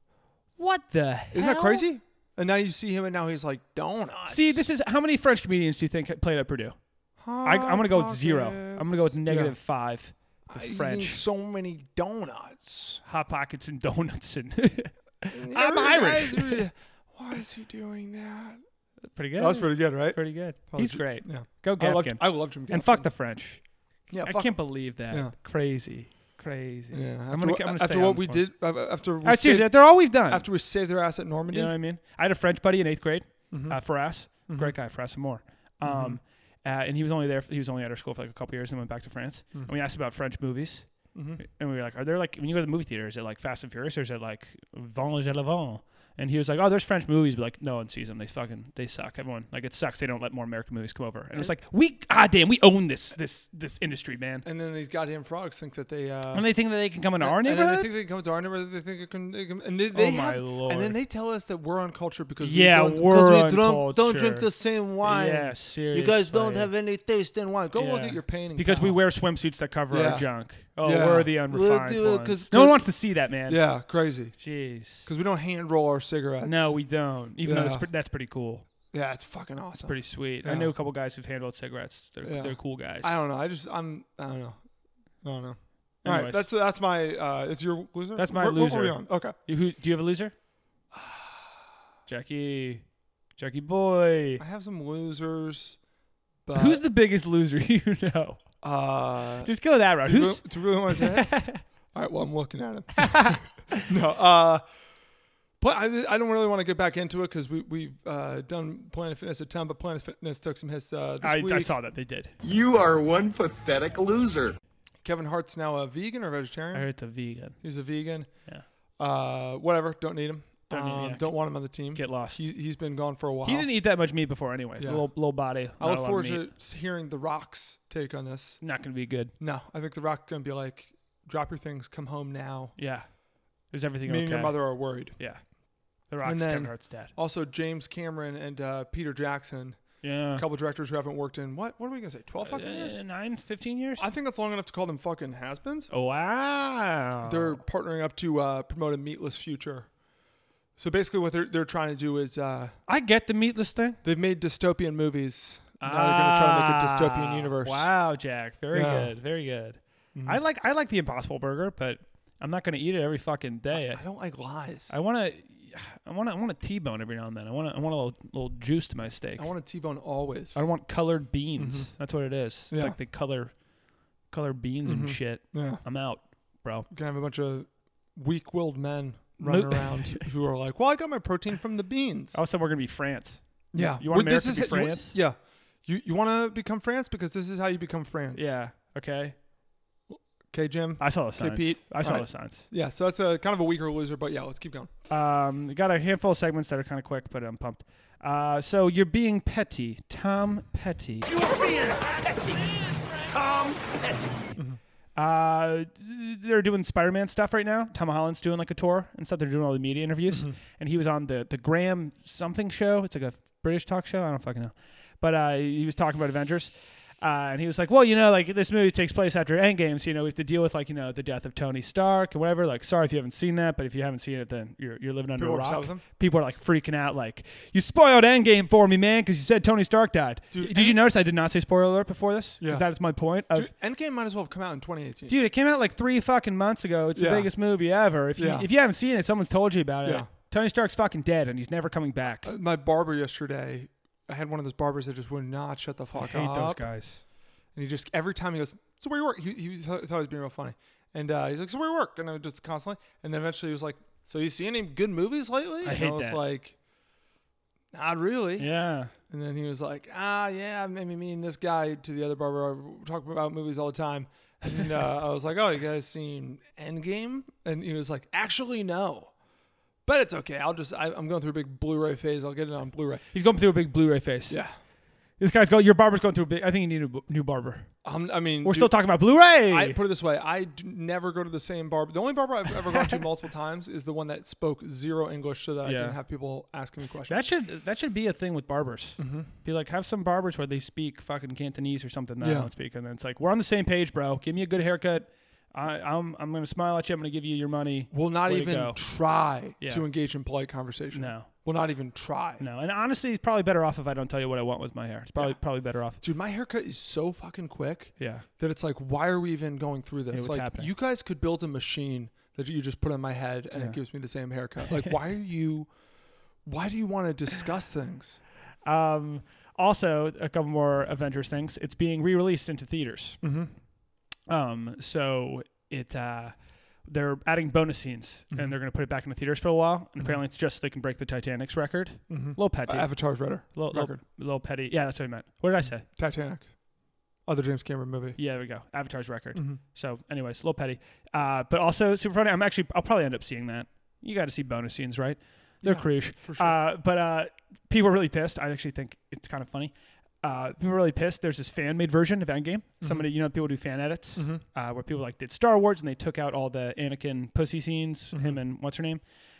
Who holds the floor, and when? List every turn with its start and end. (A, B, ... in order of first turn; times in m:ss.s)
0:00.6-0:01.9 A
0:01.3-0:04.7 B
0:04.2-0:06.8 A
0:07.2-0:09.6 B
0:07.4-0:11.2 A
0:10.5-0:13.0 B
0:13.0-0:16.6 A
0:15.3-0:18.6 B
0:19.1-0:23.6 A
0:19.4-0:23.1 B
0:24.1-0:25.3 B
0:24.2-0:28.5 A
0:26.9-0:31.7 B
0:29.2-0:30.4 A
0:31.5-0:40.9 A
0:33.5-0:34.8 B
0:35.8-0:36.2 B
0:41.1-0:41.4 B
0:41.4-0:54.4 A
0:54.4-0:56.5 B
0:56.3-0:57.9 A
0:57.2-1:09.0 B
0:59.9-1:01.0 A
1:02.4-1:04.5 A
1:05.0-1:06.7 A
1:07.7-1:13.6 A
1:09.9-1:10.3 B
1:10.8-1:12.9 B
1:13.4-1:14.4 B
1:14.4-1:15.1 A
1:15.0-1:16.8 B
1:16.4-1:18.6 A
1:17.4-1:17.9 B
1:18.9-1:20.7 B
1:19.8-1:23.2 A
1:22.2-1:24.6 B
1:25.2-1:29.3 B
1:26.0-1:26.4 A
1:28.2-1:30.3 A
1:30.9-1:31.6 B
1:32.1-1:32.8 A
1:33.4-1:34.4 A
1:34.4-1:35.8 B
1:36.4-1:36.8 B
1:36.5-1:38.4 A
1:38.6-1:44.6 B
1:39.4-1:41.6 A
1:43.0-1:43.8 A
1:45.6-1:51.7 B
1:51.2-1:52.3 A
1:52.4-1:54.6 C
1:55.0-1:56.9 B
1:56.7-1:57.6 A
1:57.6-1:58.3 B
1:59.0-2:03.7 B
2:00.7-2:01.3 A
2:01.9-2:02.4 A
2:03.4-2:06.5 A
2:04.8-2:05.1 B
2:05.7-2:08.6 B
2:08.6-2:09.3 A
2:09.4-2:12.7 B
2:12.8-2:13.1 A
2:13.7-2:15.4 A
2:14.0-2:15.2 B
2:16.1-2:17.1 A
2:16.2-2:23.0 B
2:20.0-2:20.4 A
2:22.4-2:24.1 A
2:24.0-2:25.9 B
2:25.9-2:27.6 A
2:27.2-2:29.9 B
2:30.8-2:32.8 B
2:32.9-2:34.0 A
2:34.0-2:37.9 B
2:35.8-2:44.0 A
2:38.7-2:39.1 B
2:40.1-2:40.4 B
2:43.7-2:44.9 B
2:44.9-2:49.5 A
2:49.4-2:50.6 B
2:50.5-2:53.5 A
2:51.6-2:51.9 B
2:52.7-2:53.0 B
2:54.3-2:56.9 A
2:54.8-2:55.8 B
2:56.9-3:02.4 B
2:59.4-3:00.3 A
3:02.3-3:05.1 A
3:03.7-3:08.5 B
3:08.3-3:09.3 A
3:10.1-3:14.9 B
3:11.0-3:12.6 A
3:15.1-3:22.7 A
3:23.3-3:24.5 A
3:25.2-3:53.7 A
3:45.4-3:46.0 B
3:50.5-3:51.0 B
3:52.6-3:52.9 B
3:53.5-3:55.4 B
3:55.3-4:02.5 A
3:57.1-3:57.5 B
3:58.3-3:58.7 B
4:00.0-4:00.3 B
4:02.4-4:06.9 B
4:06.1-4:07.2 A
4:07.7-4:16.8 B
4:15.8-4:16.4 A
4:17.9-4:18.7 B
4:18.6-4:19.1 A
4:19.3-4:29.3 B
4:30.0-4:33.2 B
4:33.3-4:34.6 A
4:34.5-4:34.7 B
4:35.4-4:37.9 A
4:38.0-4:39.0 B
4:38.6-4:40.0 A
4:39.6-4:47.4 B
4:45.8-4:46.2 A
4:47.3-4:59.0 A
4:49.2-4:49.5 B
4:52.4-4:52.7 B
4:58.1-5:02.6 B
4:59.8-5:00.0 A
5:01.1-5:01.5 A
5:02.6-5:06.2 A
5:06.1-5:15.9 B
5:08.2-5:08.4 A
5:10.3-5:10.9 A
5:16.6-5:18.4 B
5:18.8-5:23.4 A
5:23.4-5:23.7 B
5:24.5-5:36.0 A
5:32.3-5:34.2 B
5:35.8-5:36.7 B
5:37.4-5:38.4 B
5:38.4-5:59.2 A
5:39.5-5:39.8 B
5:45.8-5:46.8 B
5:53.0-5:53.3 B
5:54.4-5:54.6 B
5:58.3-5:58.6 B